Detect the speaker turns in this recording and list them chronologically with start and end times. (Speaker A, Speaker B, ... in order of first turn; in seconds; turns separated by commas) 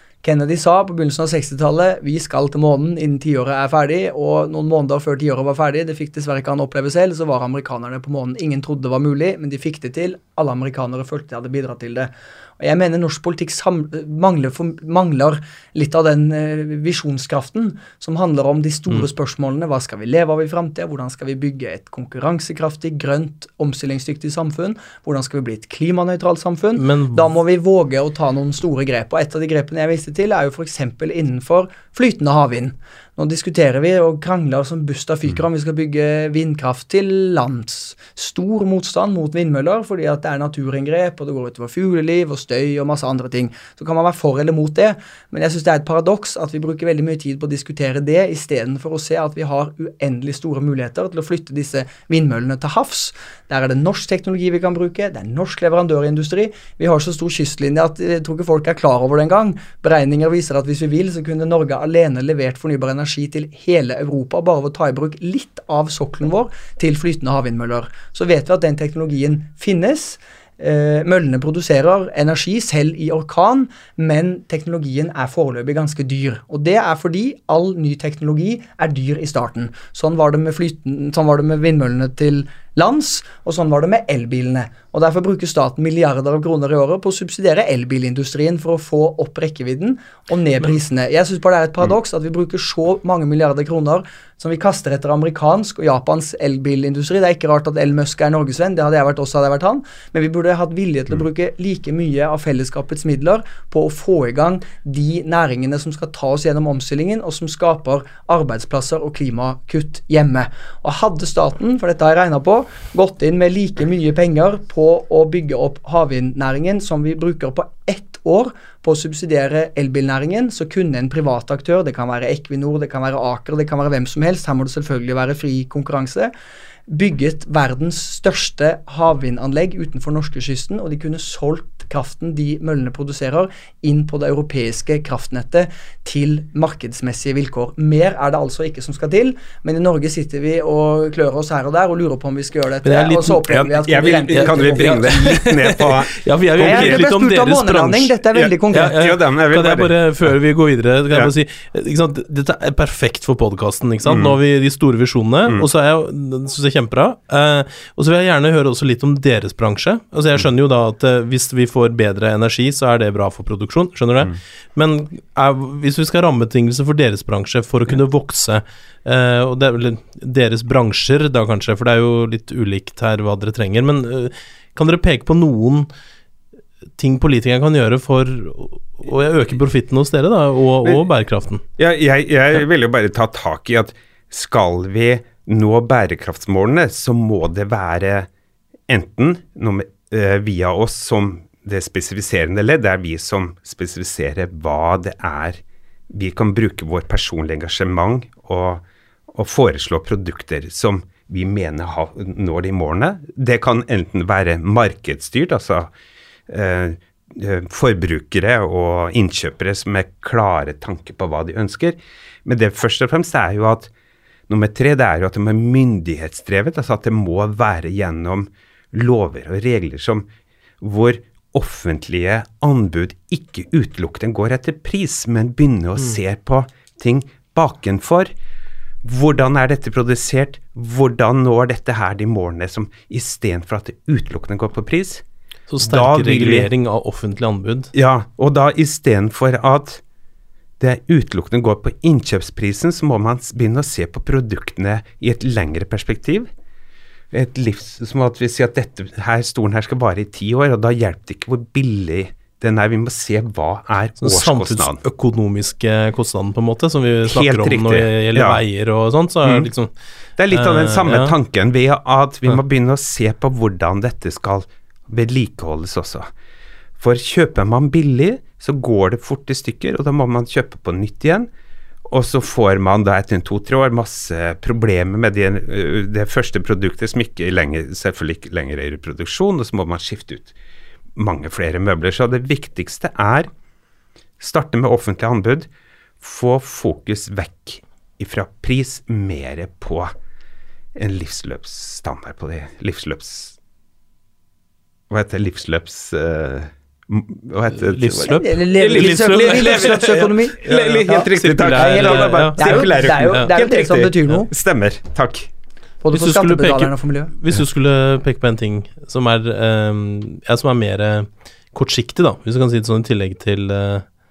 Speaker A: 0.2-126.3, Speaker B: 26.8-27.2, Speaker A: 126.9-145.3, Speaker B: 142.8-143.7, Speaker C: 143.6-147.0, Speaker B: 144.3-148.1, Speaker A: 146.6-148.9, Speaker C: 148.3-150.3, Speaker B: 148.7-175.9, Speaker C: 154.0-154.4, Speaker B: 177.0-181.6, Speaker C: 181.8-188.3, Speaker C: 188.9-205.9, Speaker C: 206.5-213.9, Speaker C: 214.5-220.2, Speaker C: 220.8-228.3, Speaker C: 229.0-235.2, Speaker B: 235.7-237.9, Speaker C: 235.8-236.7, Speaker C: 237.9-240.0, Speaker C: 240.8-246.5, Speaker C: 247.3-255.0, Speaker B: 254.2-259.9, Speaker C: 257.2-258.6, Speaker C: 259.4-259.7, Speaker C: 260.4-266.3, Speaker B: 260.5-261.3, Speaker C: 267.0-271.5, Speaker C: 272.1-280.5, Speaker C: 281.1-283.5, Speaker C: 284.4-285.7, Speaker C: 286.2-290.1, Speaker C: 290.9-293.6, Speaker C: 295.1-305.5, Speaker B: 297.7-303.5, Speaker A: 298.2-304.5, Speaker A: 306.0-307.3, Speaker B: 306.1-314.0